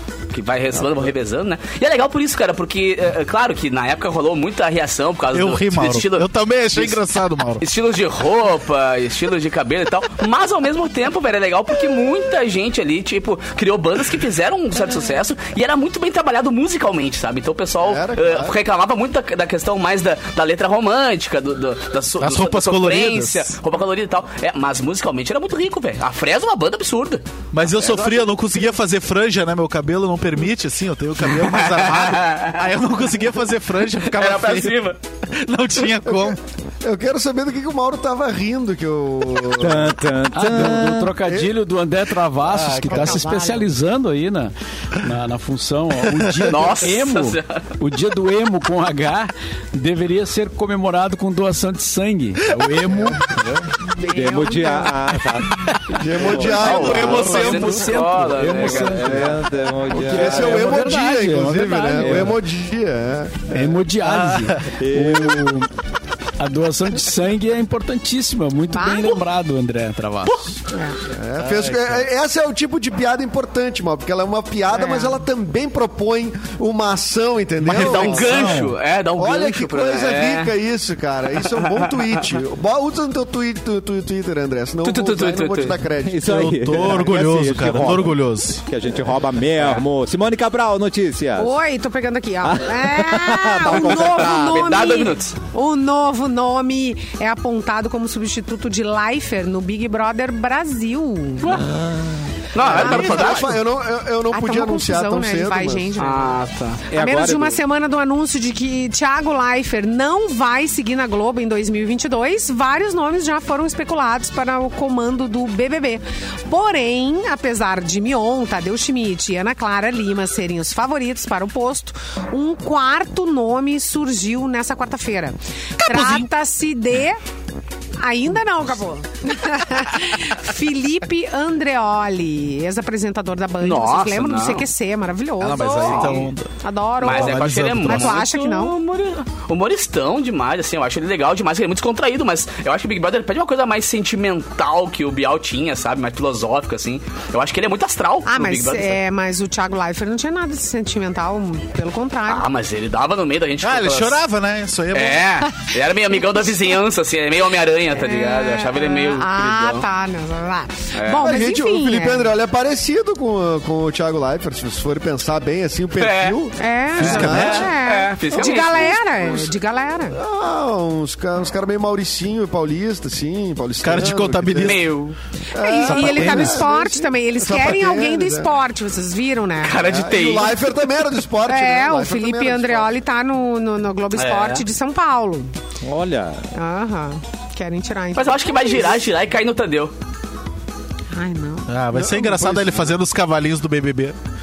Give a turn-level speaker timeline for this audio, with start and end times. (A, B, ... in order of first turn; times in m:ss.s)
0:00.3-0:07.0 A
0:05.3-0:07.6 B
0:07.6-0:27.2 A
0:17.8-0:18.6 C
0:22.2-0:23.6 B
0:27.5-0:36.4 B
0:27.8-0:28.6 C
0:31.3-0:32.6 A
0:34.0-0:35.0 A
0:36.1-0:40.0 C
0:39.5-0:41.2 D
0:40.3-0:53.6 E
0:41.2-0:41.5 C
0:42.4-0:43.3 B
0:42.9-0:43.7 F
0:46.5-0:47.7 A
0:53.9-0:54.9 F
0:54.0-0:57.3 D
0:55.9-0:57.9 C
0:56.4-0:59.4 A
0:56.7-0:59.3 E
0:57.2-0:57.6 B
0:58.4-1:00.8 D
0:59.9-1:02.4 E
1:00.1-1:03.6 C
1:02.0-1:02.4 D
1:03.5-1:05.7 E
1:04.0-1:04.6 B
1:04.8-1:05.6 D
1:06.4-1:10.5 E
1:08.7-1:09.2 F
1:10.7-1:11.0 F
1:11.1-1:26.3 C
1:11.4-1:12.0 B
1:14.7-1:15.2 F
1:17.6-1:18.8 B
1:17.7-1:20.5 A
1:21.5-1:22.2 A
1:24.8-1:25.8 A
1:26.0-1:31.6 D
1:26.2-1:28.6 B
1:31.4-1:41.6 F
1:32.4-1:34.8 D
1:33.7-1:35.4 A
1:41.4-1:41.7 A
1:41.5-1:42.4 D
1:42.5-1:43.6 A
1:42.6-1:45.9 C
1:42.6-1:43.4 B
1:42.7-1:43.4 F
1:44.3-1:46.4 F
1:46.0-1:46.8 A
1:46.9-1:47.6 D
1:46.9-2:07.2 F
2:05.8-2:06.3 B
2:08.0-2:18.8 F
2:13.6-2:14.7 A
2:15.4-2:16.5 B
2:15.8-2:16.2 A
2:17.0-2:29.0 A
2:17.0-2:18.2 B
2:28.3-2:32.5 F
2:32.3-2:34.2 A
2:33.6-2:35.3 B
2:34.9-2:39.9 A
2:37.9-2:42.3 F
2:40.9-2:41.3 A
2:41.2-2:47.7 C
2:46.0-2:46.4 A
2:46.6-2:50.2 F
2:47.0-2:47.7 B
2:47.0-2:49.4 A
2:48.4-2:48.9 C
2:50.1-2:54.8 C
2:53.8-2:54.9 B
2:54.6-2:55.2 A
2:55.5-2:58.5 C
2:55.6-2:59.8 F
2:55.8-2:56.6 B
2:59.6-3:00.8 A
2:59.8-3:02.9 C
3:01.5-3:05.5 F
3:04.1-3:04.7 A
3:05.8-3:06.4 D
3:06.6-3:09.0 F
3:08.1-3:09.9 A
3:11.1-3:11.7 F
3:11.7-3:14.2 B
3:11.9-3:12.9 C